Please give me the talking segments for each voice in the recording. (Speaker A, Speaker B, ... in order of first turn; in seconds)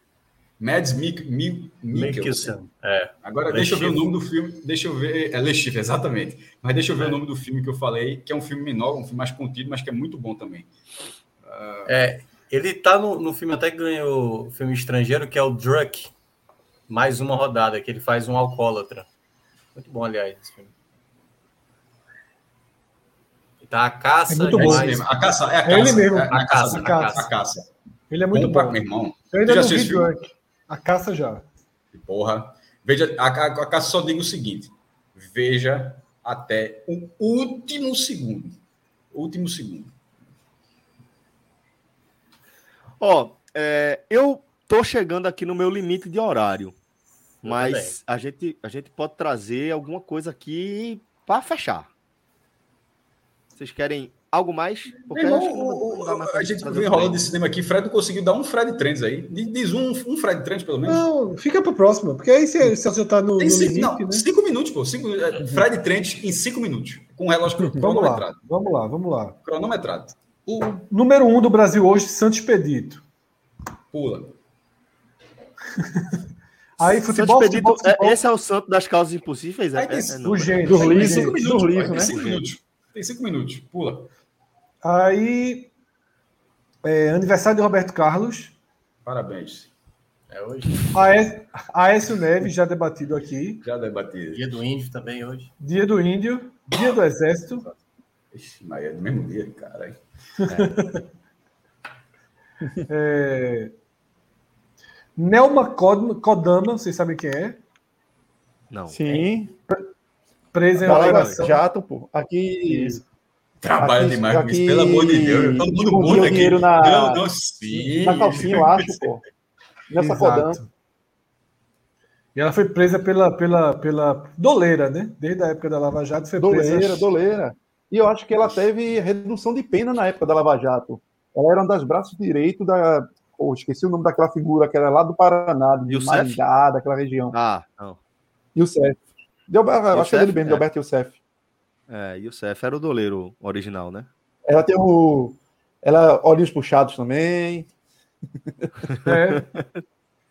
Speaker A: 0.6-2.5, 3.2-10.7, 11.4-11.9, 24.5-27.7, 28.3-30.1, 31.9-38.6, 39.1-39.9, 55.1-61.0, 63.4-68.5, 69.4-70.2, 73.9-74.3, 79.7-84.1, 89.0-89.7, 93.6-94.5, 98.3-100.0, 113.6-119.0
Speaker B: 1.9-4.0, 11.9-16.1, 16.9-19.1, 19.7-20.7, 23.6-25.1, 25.7-27.3, 47.4-48.0, 90.3-91.1, 94.3-95.5, 117.6-118.6
Speaker C: 24.3-25.1, 25.6-27.3, 28.1-31.4, 60.8-64.2, 67.8-69.4, 70.5-73.0, 75.8-76.2, 76.8-78.2, 80.2-81.4, 84.8-85.7, 86.8-88.5, 90.9-93.6, 95.6-97.7, 100.5-101.0, 102.9-103.7, 105.2-107.6, 110.5-111.6, 112.7-113.0, 120.0-120.7, 122.3-127.1, 149.0-149.6
Speaker D: 43.0-46.8, 47.4-51.9, 53.5-57.3, 76.8-82.5, 100.5-100.7, 108.7-109.2, 110.9-111.3, 135.9-136.4, 137.3-138.0, 139.9-140.6, 141.9-144.1
Speaker E: 108.9-109.5, 110.8-113.0, 113.8-117.3, 117.8-119.2, 119.9-120.6, 126.4-137.3, 138.5-141.2, 144.4-147.7